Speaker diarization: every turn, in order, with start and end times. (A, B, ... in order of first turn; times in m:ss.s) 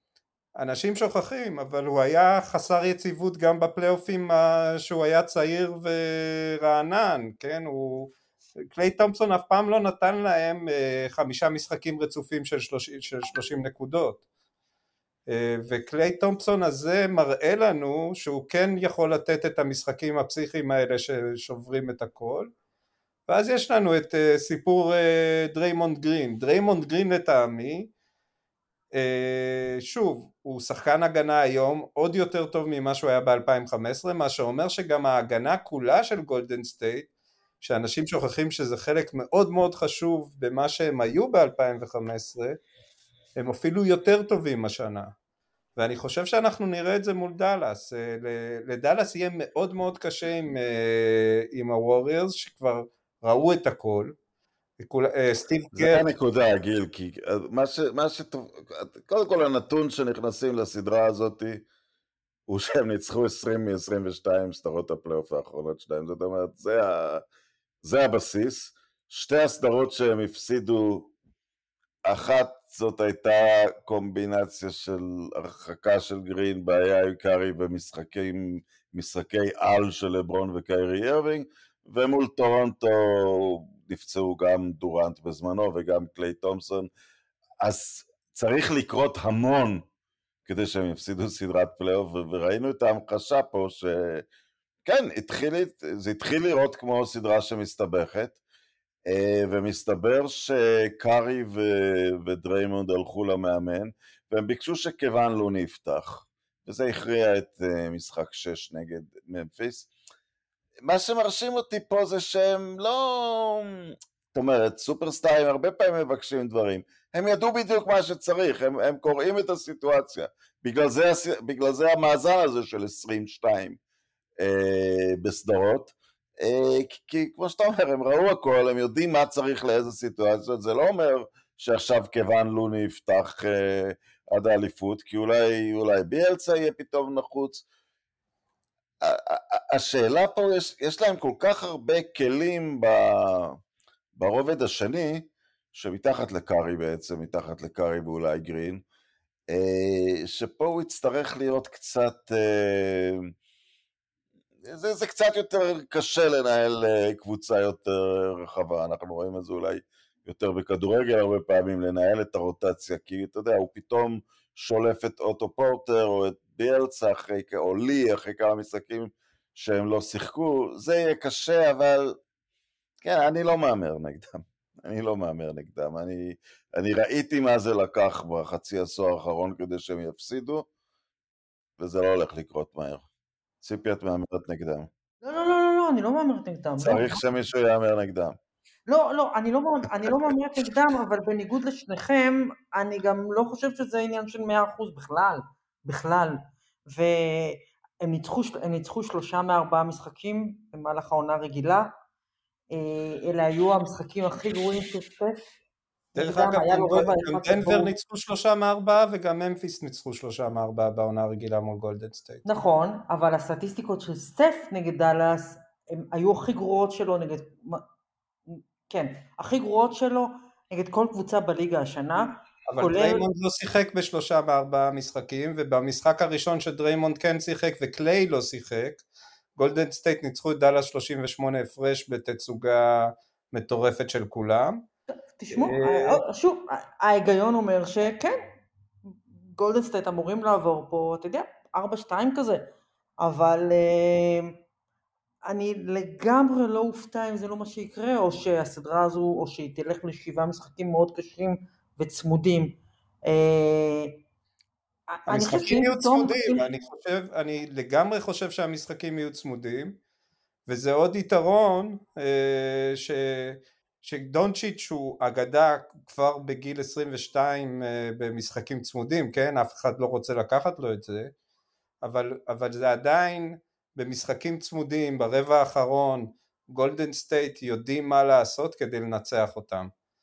0:00.6-0:08.1 A
0:08.7-0:14.2 A
0:15.3-0:22.5 A
0:23.3-0:27.9 A
0:28.9-0:37.1 A
0:37.6-0:42.6 A
0:43.4-0:45.1 A
0:45.8-0:54.1 A
0:54.8-0:56.0 A
0:55.7-1:01.6 B
1:02.5-1:07.2 B
1:07.8-1:11.1 B
1:12.1-1:26.9 B
1:27.6-1:29.9 B
1:30.5-1:34.2 B
1:34.8-1:38.4 B
1:39.1-1:49.9 B
1:50.8-2:03.8 B
2:04.4-2:17.6 B
2:19.0-2:23.6 B
2:24.2-2:28.8 B
2:29.5-2:33.3 B
2:34.6-2:52.1 B
2:53.0-3:00.7 B
3:01.8-3:03.0 B
3:03.6-3:04.9 B
3:05.2-3:07.2 C
3:06.8-3:08.4 B
3:08.9-3:21.9 C
3:22.7-3:25.5 C
3:26.2-3:27.9 C
3:26.2-3:32.4 A
3:32.4-3:37.8 C
3:38.5-3:43.2 C
3:42.7-3:49.0 A
3:49.6-3:54.8 A
3:55.4-3:58.4 C
3:55.5-3:56.2 A
3:59.1-4:02.7 C
4:03.2-4:04.6 C
4:05.5-4:14.2 C
4:15.1-4:16.7 C
4:15.3-4:20.0 A
4:20.7-4:31.3 A
4:32.0-4:39.9 A